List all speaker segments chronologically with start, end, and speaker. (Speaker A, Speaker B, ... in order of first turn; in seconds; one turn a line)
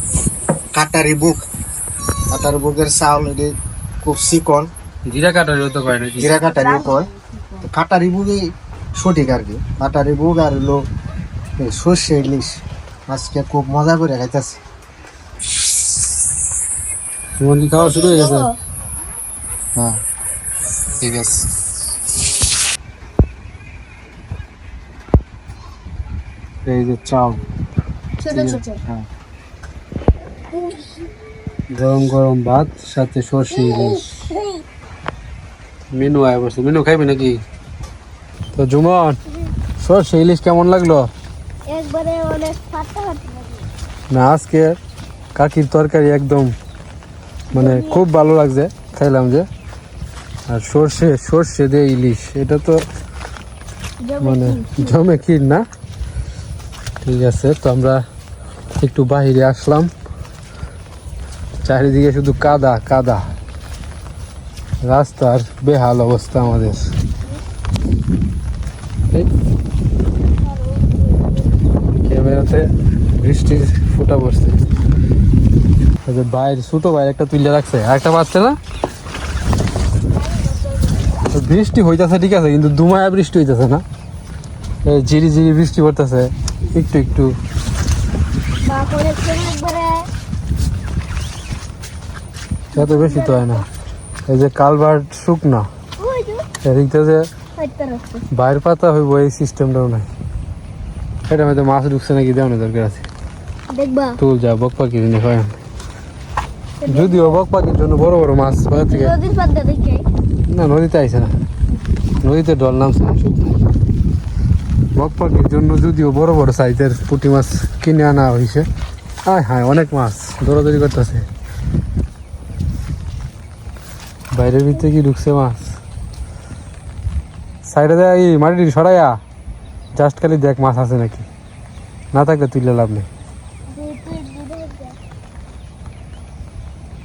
Speaker A: 0.7-1.4
Speaker A: 2.3-4.7
Speaker B: 5.0-6.6
Speaker A: 6.2-7.1
Speaker A: 7.7-8.4
Speaker A: 8.9-10.8
Speaker A: 11.6-14.6
Speaker B: 17.4-18.5
Speaker C: 18.0-18.5
Speaker B: 21.0-21.5
Speaker B: 26.6-27.4
Speaker C: 28.2-28.8
Speaker B: 28.3-29.1
Speaker B: 31.7-34.0
Speaker C: 33.5-34.6
Speaker B: 35.9-37.4
Speaker B: 38.5-39.2
Speaker B: 39.8-41.1
Speaker C: 41.7-43.7
Speaker B: 44.1-44.8
Speaker B: 45.4-46.5
Speaker C: 47.5-48.0
Speaker B: 47.5-49.5
Speaker B: 50.5-52.8
Speaker C: 54.0-54.9
Speaker B: 54.2-55.7
Speaker B: 57.0-58.0
Speaker B: 58.8-59.9
Speaker B: 61.6-63.3
Speaker B: 64.8-66.9
Speaker C: 70.5-71.5
Speaker B: 72.0-74.6
Speaker B: 76.1-78.6
Speaker C: 80.2-81.0
Speaker B: 81.3-83.8
Speaker B: 84.8-87.4
Speaker C: 88.6-90.1
Speaker B: 92.8-93.6
Speaker C: 92.8-93.6
Speaker B: 94.3-95.7
Speaker C: 96.0-96.4
Speaker B: 96.6-97.3
Speaker C: 97.6-98.2
Speaker B: 98.3-100.1
Speaker B: 101.3-103.0
Speaker C: 103.7-104.2
Speaker B: 104.2-105.6
Speaker C: 106.8-107.4
Speaker B: 106.9-109.1
Speaker C: 108.9-110.1
Speaker B: 110.5-111.3
Speaker B: 112.2-113.6
Speaker B: 115.0-118.7
Speaker B: 119.3-121.3
Speaker B: 124.3-125.7
Speaker B: 127.6-129.2
Speaker B: 129.9-131.2
Speaker B: 132.1-133.1
Speaker C: 133.7-135.0